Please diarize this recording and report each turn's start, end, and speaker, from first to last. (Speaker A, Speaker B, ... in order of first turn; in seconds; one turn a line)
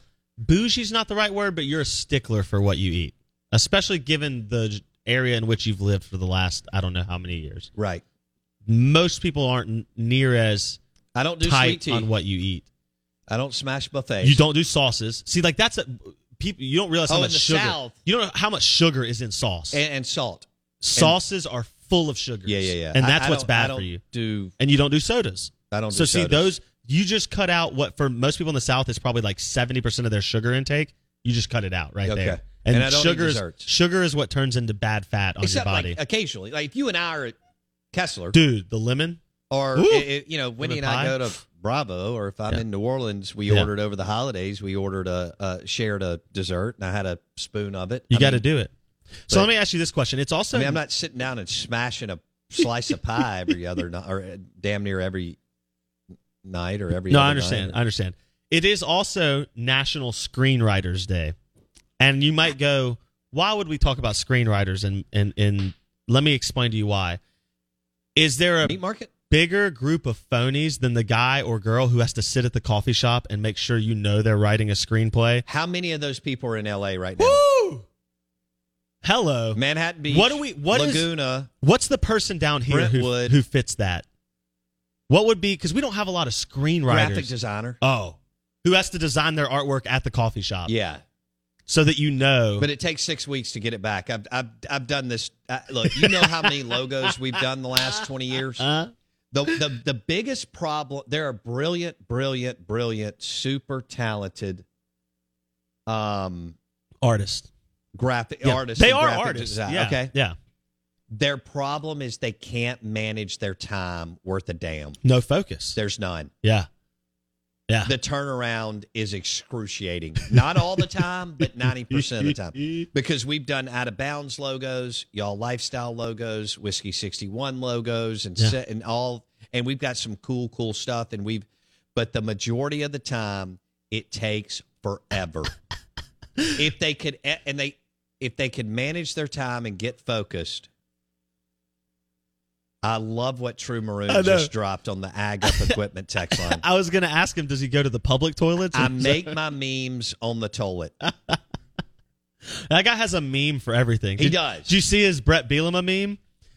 Speaker A: 0.4-7.7
Speaker B: 7.8-8.0
Speaker A: 8.7-10.8
Speaker B: 11.1-12.1
Speaker A: 11.4-12.7
Speaker B: 13.3-14.4
Speaker A: 14.2-19.8
Speaker B: 17.1-18.0
Speaker B: 19.7-21.1
Speaker A: 20.8-24.0
Speaker B: 22.5-24.5
Speaker A: 24.6-36.0
Speaker B: 25.7-26.5
Speaker B: 32.0-33.7
Speaker B: 35.4-37.3
Speaker B: 37.9-38.4
Speaker A: 38.3-39.2
Speaker B: 39.5-48.4
Speaker A: 39.8-41.2
Speaker A: 48.1-48.7
Speaker A: 49.2-50.8
Speaker B: 50.5-55.4
Speaker B: 56.4-57.8
Speaker A: 57.1-61.3
Speaker A: 62.0-67.2
Speaker A: 68.2-68.8
Speaker B: 68.7-69.1
Speaker A: 69.3-75.4
Speaker B: 75.5-77.4
Speaker A: 77.2-77.8
Speaker A: 79.0-84.0
Speaker B: 79.5-81.5
Speaker B: 82.7-83.4
Speaker A: 85.1-90.7
Speaker B: 86.9-87.8
Speaker B: 90.7-91.0
Speaker A: 91.7-92.7
Speaker B: 92.6-98.7
Speaker A: 95.9-96.5
Speaker A: 98.6-98.9
Speaker B: 99.3-104.6
Speaker B: 105.9-106.5
Speaker A: 107.0-107.5
Speaker B: 107.9-110.1
Speaker A: 108.4-110.3
Speaker B: 111.1-115.0
Speaker A: 115.0-115.8
Speaker B: 115.8-116.3
Speaker A: 116.4-116.7
Speaker B: 117.8-135.5
Speaker A: 122.0-122.8
Speaker B: 136.5-140.7
Speaker B: 142.8-146.6
Speaker A: 144.1-144.5
Speaker A: 145.4-145.8
Speaker A: 146.3-149.3
Speaker B: 148.7-150.9
Speaker A: 151.1-151.4
Speaker A: 152.7-156.2
Speaker B: 154.2-154.7